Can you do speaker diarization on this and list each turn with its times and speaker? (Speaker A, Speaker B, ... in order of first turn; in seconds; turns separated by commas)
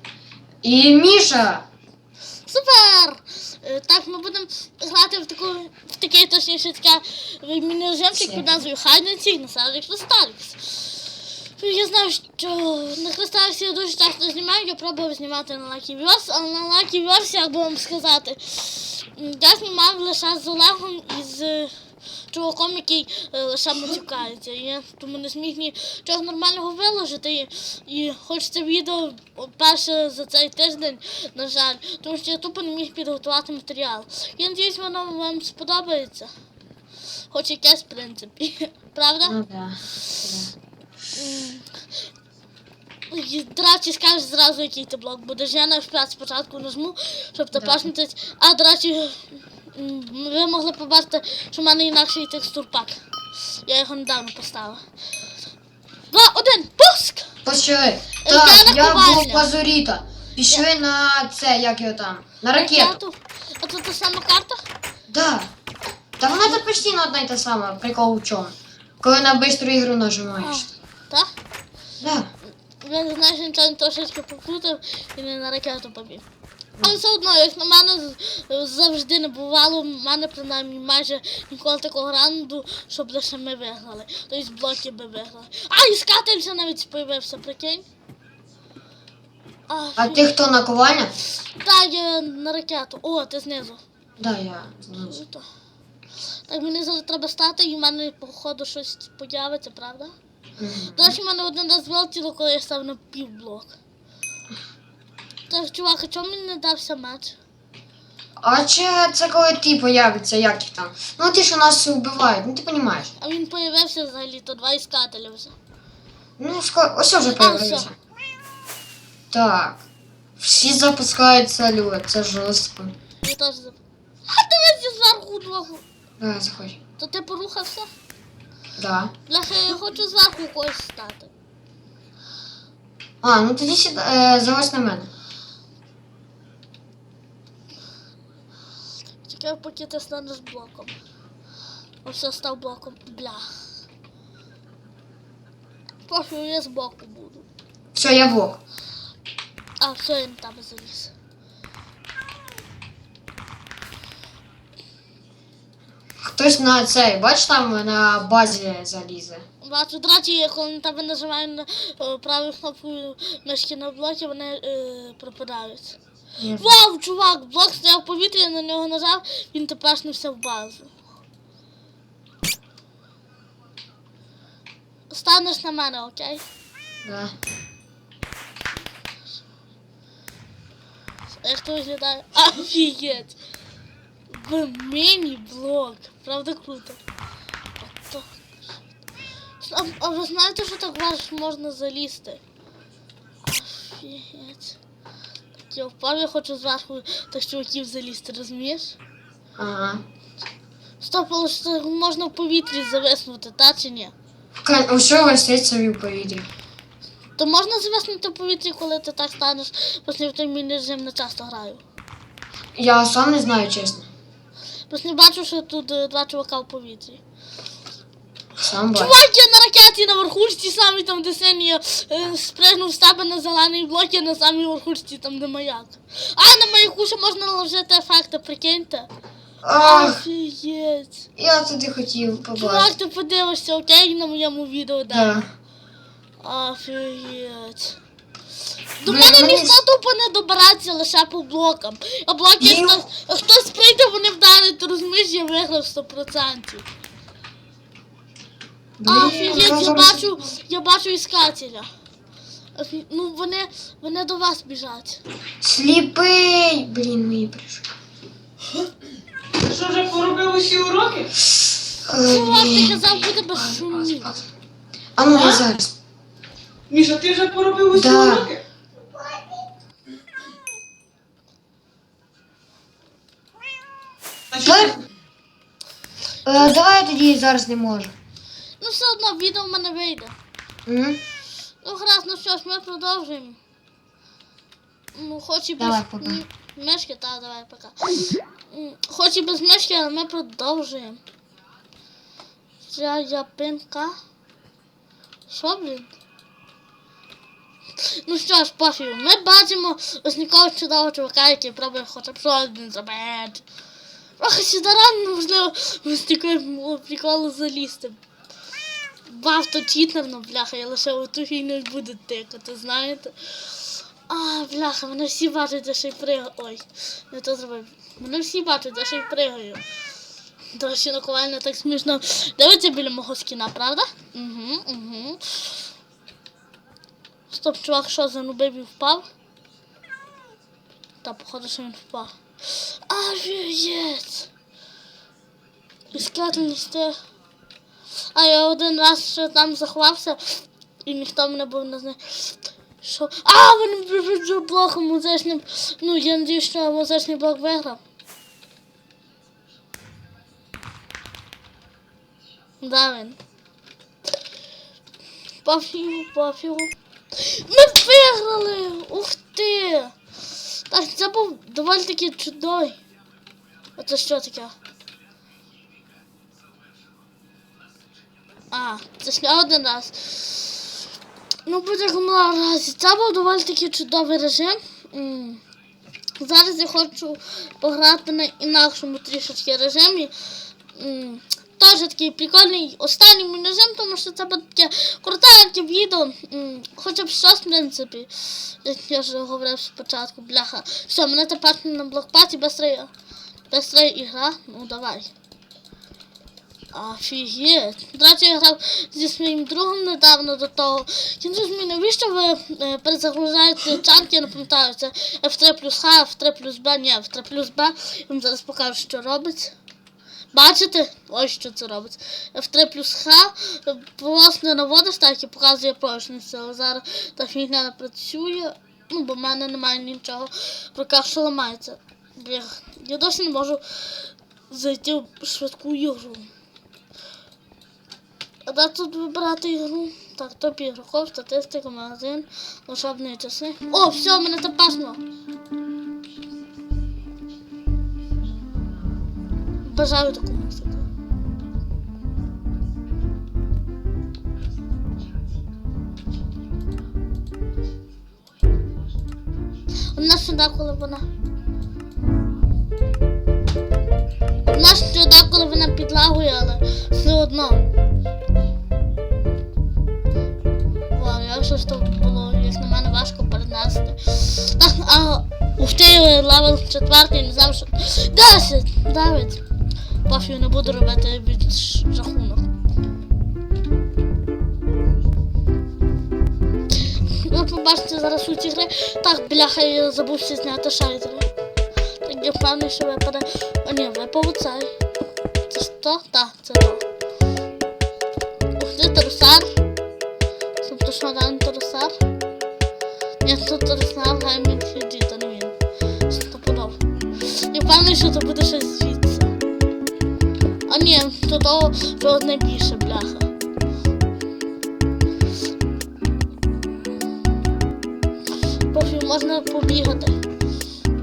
Speaker A: 0.6-1.7, Speaker B: 2.5-21.7, Speaker A: 8.2-8.6, Speaker B: 22.3-36.3, Speaker B: 37.3-39.4, Speaker A: 39.2-40.5, Speaker B: 41.1-41.8, Speaker B: 43.1-53.0, Speaker A: 47.5-47.9, Speaker B: 53.6-54.8, Speaker B: 56.1-57.3, Speaker A: 57.5-63.0, Speaker B: 58.2-59.5, Speaker B: 62.5-64.6, Speaker A: 65.1-65.5, Speaker A: 66.2-70.7, Speaker B: 70.4-71.3, Speaker A: 72.0-72.3, Speaker B: 72.8-76.2, Speaker B: 76.8-87.8, Speaker B: 89.7-90.3, Speaker A: 90.0-91.2, Speaker B: 91.6-93.8, Speaker A: 94.2-95.2, Speaker B: 95.1-95.5, Speaker B: 96.5-100.1, Speaker A: 100.6-101.2, Speaker B: 101.0-103.7, Speaker B: 105.5-107.4, Speaker A: 108.4-113.1, Speaker B: 113.2-115.6, Speaker A: 116.4-118.0, Speaker B: 117.2-117.9, Speaker A: 119.3-119.8, Speaker A: 120.4-122.9, Speaker B: 123.2-125.8, Speaker A: 126.2-126.8, Speaker B: 127.0-127.9, Speaker A: 128.8-129.1, Speaker B: 129.3-131.3, Speaker A: 133.2-135.1, Speaker B: 139.3-140.9, Speaker B: 142.1-143.6, Speaker B: 146.1-147.5, Speaker A: 147.9-148.6, Speaker B: 149.8-151.1, Speaker A: 156.2-159.4, Speaker B: 159.6-166.0, Speaker A: 166.4-166.8, Speaker B: 166.6-170.9, Speaker B: 175.1-176.4, Speaker A: 177.1-177.3, Speaker B: 181.4-183.4, Speaker B: 184.3-187.0, Speaker B: 187.8-188.3, Speaker B: 189.6-192.4, Speaker B: 193.4-194.8, Speaker B: 195.7-199.0, Speaker A: 199.6-200.0, Speaker B: 201.0-204.1, Speaker A: 204.6-206.5, Speaker B: 207.4-211.8, Speaker A: 212.8-214.1, Speaker B: 214.9-217.2, Speaker A: 218.6-219.2, Speaker B: 218.9-229.1, Speaker A: 229.6-230.2, Speaker B: 229.7-231.3, Speaker A: 231.4-232.9, Speaker B: 232.5-235.4, Speaker A: 235.1-235.5, Speaker B: 236.4-238.0, Speaker B: 239.0-246.9, Speaker A: 239.1-239.8, Speaker A: 242.6-243.0, Speaker A: 249.0-250.3, Speaker B: 249.1-251.9, Speaker B: 252.8-255.2, Speaker A: 255.6-257.9, Speaker C: 259.6-261.3, Speaker A: 261.4-264.4, Speaker B: 262.1-264.4, Speaker A: 265.2-265.9, Speaker C: 265.4-265.6, Speaker C: 266.9-268.6, Speaker A: 267.9-268.5, Speaker C: 274.5-274.8, Speaker A: 274.6-275.0, Speaker A: 276.4-278.1, Speaker B: 278.8-280.3, Speaker A: 280.9-281.2, Speaker B: 281.8-283.6, Speaker B: 285.1-291.2, Speaker A: 285.8-286.4, Speaker B: 292.9-294.2, Speaker B: 295.5-296.1, Speaker B: 298.0-303.6, Speaker B: 304.4-308.2, Speaker B: 309.3-319.8, Speaker B: 320.7-325.8, Speaker B: 327.5-329.3, Speaker B: 331.2-334.5, Speaker B: 336.1-337.2, Speaker B: 338.3-348.0, Speaker B: 352.8-353.4, Speaker B: 355.6-360.1, Speaker B: 360.9-363.0, Speaker B: 364.0-364.7, Speaker B: 368.7-370.9, Speaker B: 371.7-375.6, Speaker B: 376.4-380.3, Speaker B: 380.9-393.1, Speaker B: 393.7-395.3, Speaker B: 396.9-409.8, Speaker B: 410.5-426.5, Speaker B: 428.7-435.2, Speaker B: 439.8-441.1, Speaker B: 450.1-451.3, Speaker B: 454.7-457.9, Speaker B: 461.1-469.6, Speaker B: 470.3-472.7, Speaker B: 477.1-481.5, Speaker B: 482.2-484.9, Speaker B: 485.7-487.0, Speaker B: 488.8-489.7, Speaker B: 490.8-492.1, Speaker B: 493.4-495.8, Speaker B: 496.3-499.5, Speaker B: 500.9-503.5, Speaker B: 508.9-510.4